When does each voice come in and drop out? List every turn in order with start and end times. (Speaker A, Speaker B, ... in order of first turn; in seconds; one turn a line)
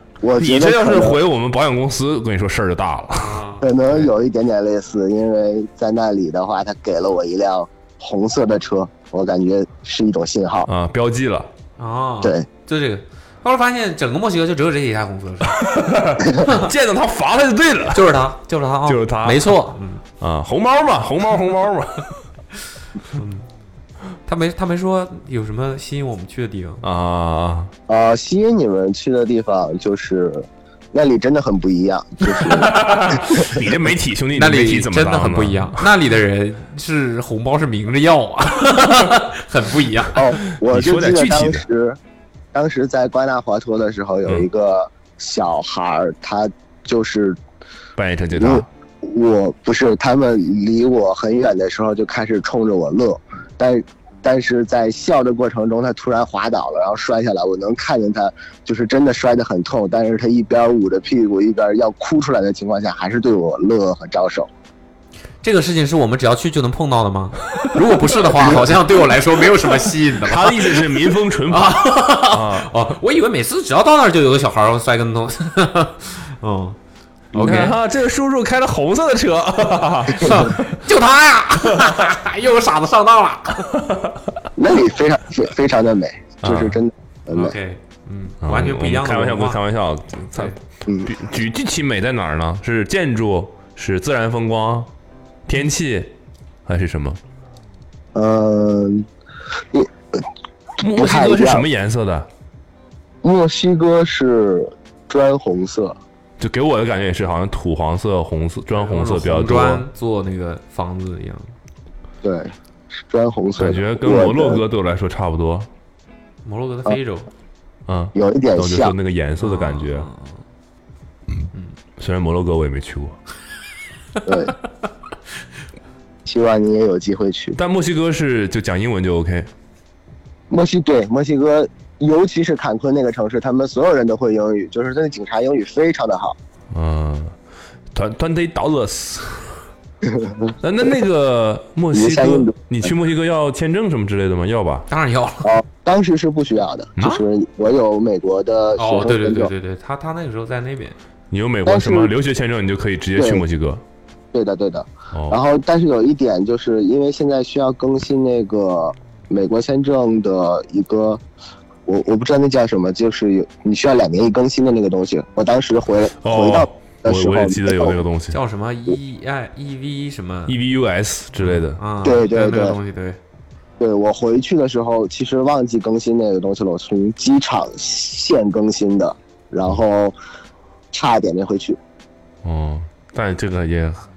Speaker A: 0.2-1.2
Speaker B: 0.4-3.4
Speaker C: 3.1-4.0
Speaker A: 3.6-10.7
Speaker B: 10.6-11.5
Speaker C: 11.8-15.6
Speaker B: 15.5-18.1
Speaker C: 16.3-16.7
Speaker C: 17.9-20.0
Speaker B: 18.9-19.6
Speaker B: 20.2-22.2
Speaker C: 23.1-23.5
Speaker C: 24.2-26.8
Speaker B: 26.8-27.7
Speaker A: 27.9-33.5
Speaker B: 32.4-35.8
Speaker C: 34.3-40.1
Speaker A: 40.1-42.0
Speaker B: 40.6-41.6
Speaker A: 42.5-47.4
Speaker B: 48.0-48.7
Speaker A: 48.3-64.5
Speaker C: 65.4-76.8
Speaker B: 70.1-72.7
Speaker A: 77.3-77.7
Speaker C: 77.3-77.8
Speaker B: 77.3-80.6
Speaker C: 80.2-83.8
Speaker A: 84.6-87.5
Speaker B: 86.4-86.8
Speaker C: 87.3-89.6
Speaker B: 88.4-94.9
Speaker B: 95.5-96.1
Speaker B: 96.7-97.2
Speaker A: 98.1-99.1
Speaker A: 99.7-100.2
Speaker B: 100.8-102.3
Speaker A: 100.9-101.7
Speaker A: 103.2-106.0
Speaker B: 106.4-109.8
Speaker C: 108.7-111.5
Speaker A: 112.2-114.6
Speaker B: 113.6-115.7
Speaker C: 116.4-117.3
Speaker B: 117.9-120.1
Speaker A: 118.1-118.9
Speaker C: 119.4-120.4
Speaker B: 122.0-123.2
Speaker A: 124.3-124.5
Speaker A: 126.2-127.6
Speaker B: 127.5-129.5
Speaker A: 130.5-136.4
Speaker B: 136.7-137.3
Speaker B: 137.9-139.6
Speaker A: 140.0-140.5
Speaker B: 140.6-144.9
Speaker A: 141.9-142.9
Speaker C: 144.9-145.5
Speaker A: 145.4-149.5
Speaker C: 148.8-151.0
Speaker B: 151.3-153.8
Speaker A: 151.7-152.1
Speaker A: 153.2-153.4
Speaker A: 154.3-161.2
Speaker B: 155.1-155.4
Speaker A: 161.9-168.0
Speaker B: 166.2-168.4
Speaker C: 168.3-170.6
Speaker B: 170.5-171.8
Speaker C: 171.4-173.2
Speaker A: 172.0-172.8
Speaker A: 173.8-180.2
Speaker A: 180.9-181.8
Speaker B: 182.4-184.1